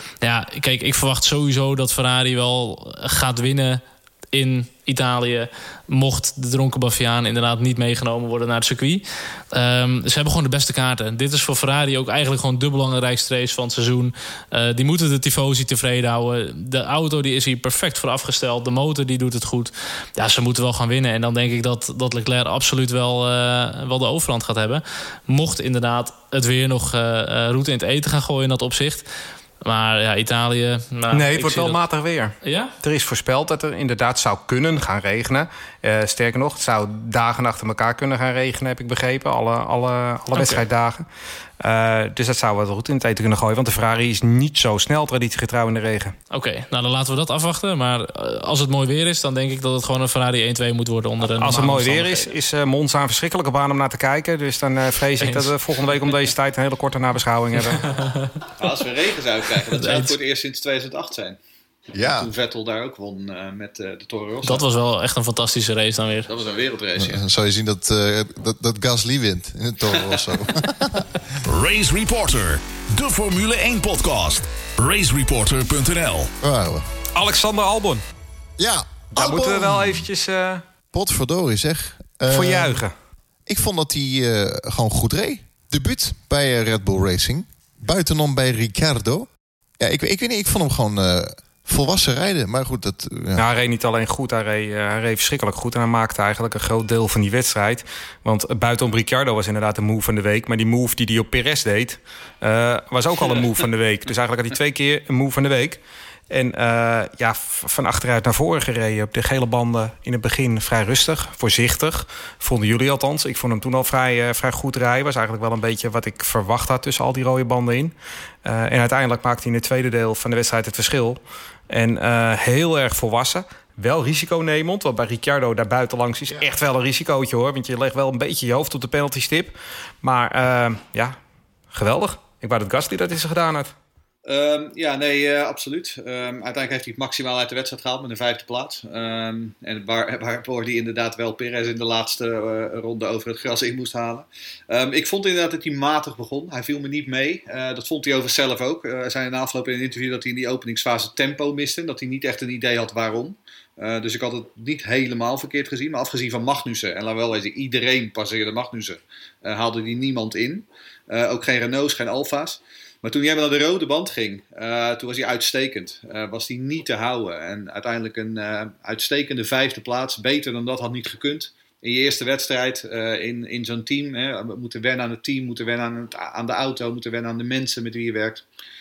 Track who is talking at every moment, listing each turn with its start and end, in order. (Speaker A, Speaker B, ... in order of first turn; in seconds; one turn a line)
Speaker A: 0.2-29.1
Speaker A: 29.6-31.8
Speaker B: 31.1-41.0
Speaker A: 32.4-32.8
Speaker A: 40.3-40.6
Speaker B: 41.6-46.1
Speaker A: 46.3-52.3
Speaker B: 51.2-57.9
Speaker A: 55.2-55.5
Speaker A: 57.6-58.7
Speaker C: 58.6-61.4
Speaker A: 59.7-60.1
Speaker D: 61.9-62.3
Speaker C: 62.0-64.6
Speaker A: 64.4-66.3
Speaker C: 66.3-67.2
Speaker D: 67.0-71.4
Speaker E: 71.4-76.3
Speaker D: 76.4-76.8
Speaker B: 77.1-78.0
Speaker D: 78.6-80.1
Speaker B: 79.1-80.6
Speaker D: 80.9-82.8
Speaker B: 82.3-82.9
Speaker D: 83.5-89.3
Speaker D: 89.8-93.5
Speaker B: 93.3-121.2
Speaker B: 121.7-131.2
Speaker B: 131.7-133.7
Speaker C: 134.2-178.4